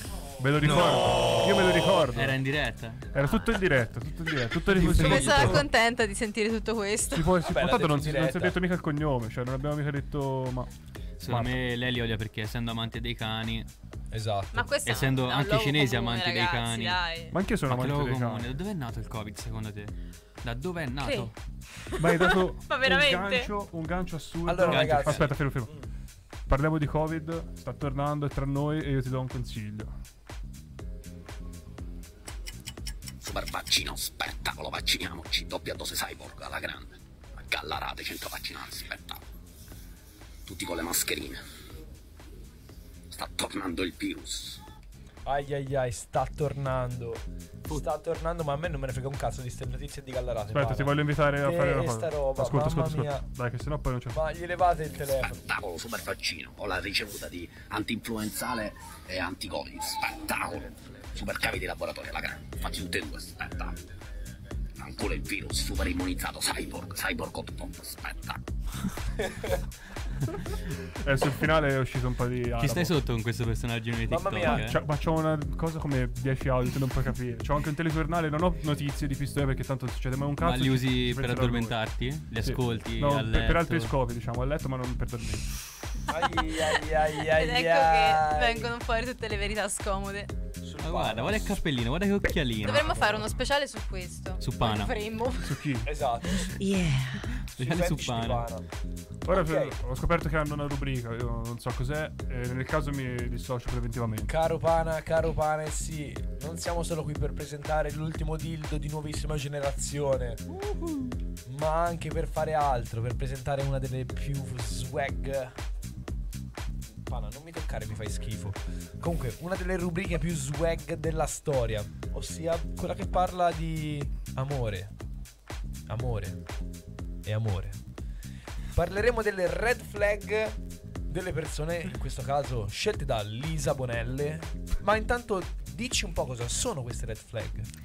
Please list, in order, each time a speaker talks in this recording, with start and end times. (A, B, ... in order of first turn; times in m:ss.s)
0:00.4-0:02.4 A
0:02.1-0:03.1 B
0:03.1-0:05.6 A
0:04.9-0:07.4 C
0:07.1-0:10.7 A
0:07.4-0:08.6 D
0:11.2-0:13.7 B
0:11.3-0:11.6 A
0:14.1-0:14.7 D
0:14.5-0:17.4 C
0:14.8-0:17.0 B
0:17.3-0:18.5 A
0:17.7-0:21.3 B
0:21.0-0:23.5 C
0:22.0-0:25.7 A
0:24.5-0:25.8 D
0:24.6-0:25.4 B
0:26.5-0:29.9 A
0:33.2-0:39.2 E
0:40.5-0:41.4 E
0:43.1-0:44.6 E
0:45.3-0:53.2 D
0:50.5-0:54.2 A
0:54.1-0:55.4 D
0:55.2-1:03.8 E
1:04.8-1:08.4 E
1:11.0-1:13.0 A
1:12.6-1:14.8 B
1:14.1-1:14.6 D
1:14.4-1:21.8 A
1:20.4-1:23.9 B
1:22.4-1:25.5 A
1:26.1-1:28.7 D
1:27.3-1:30.3 C
1:30.6-1:31.6 D
1:30.8-1:33.0 B
1:32.6-1:35.6 C
1:32.7-1:33.2 D
1:34.4-1:35.0 B
1:35.4-1:35.9 A
1:35.9-1:36.6 D
1:37.4-1:38.5 B
1:37.6-1:38.6 D
1:39.3-1:44.3 A
1:39.3-1:39.8 D
1:44.3-1:50.4 D
1:50.6-1:51.1 B
1:51.5-1:55.6 D
1:57.1-2:04.9 D
2:05.9-2:06.4 D
2:07.2-2:07.8 D
2:08.8-2:10.6 D
2:11.1-2:17.7 D